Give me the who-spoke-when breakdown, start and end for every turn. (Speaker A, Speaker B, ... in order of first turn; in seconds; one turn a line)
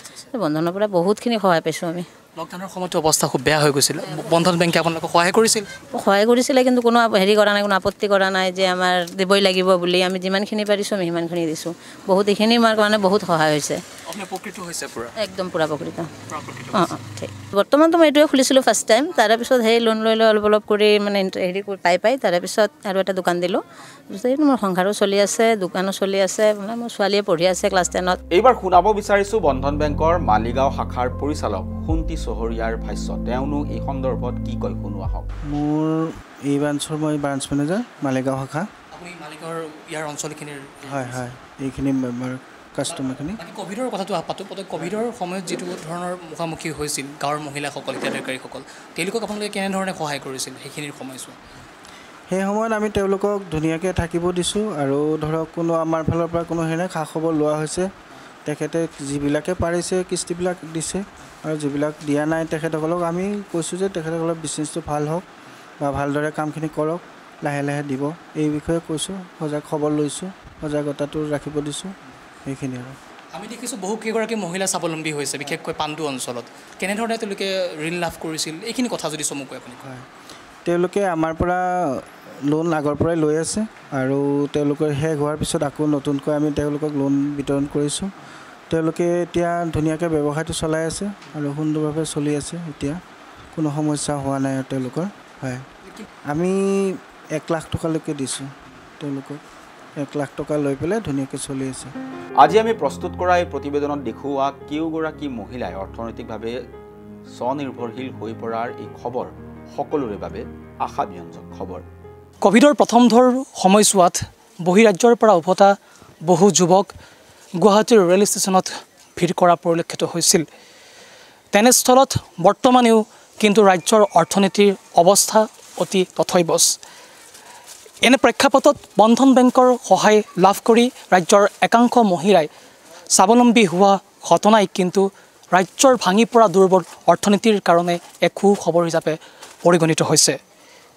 Speaker A: 0.3-2.1
Speaker B: 2.4-5.7
Speaker A: 6.0-13.8
Speaker B: 14.1-15.1
Speaker A: 15.2-16.1
Speaker B: 16.3-17.0
Speaker A: 16.7-28.2
Speaker C: 28.3-35.3
Speaker D: 35.5-38.7
Speaker B: 38.9-41.2
Speaker D: 40.8-43.4
Speaker B: 42.9-51.4
Speaker D: 52.3-57.9
Speaker D: 58.5-65.2
Speaker D: 65.8-71.9
Speaker D: 72.5-73.0
Speaker B: 73.3-79.8
Speaker D: 80.7-88.1
Speaker D: 88.7-93.0
Speaker D: 93.5-95.7
Speaker D: 96.3-99.4
Speaker D: 100.0-101.9
Speaker C: 102.4-106.6
Speaker C: 107.4-111.8
Speaker B: 112.4-115.7
Speaker B: 116.3-116.9
Speaker B: 117.6-120.5
Speaker B: 121.5-126.8
Speaker B: 128.0-132.5
Speaker B: 133.2-140.4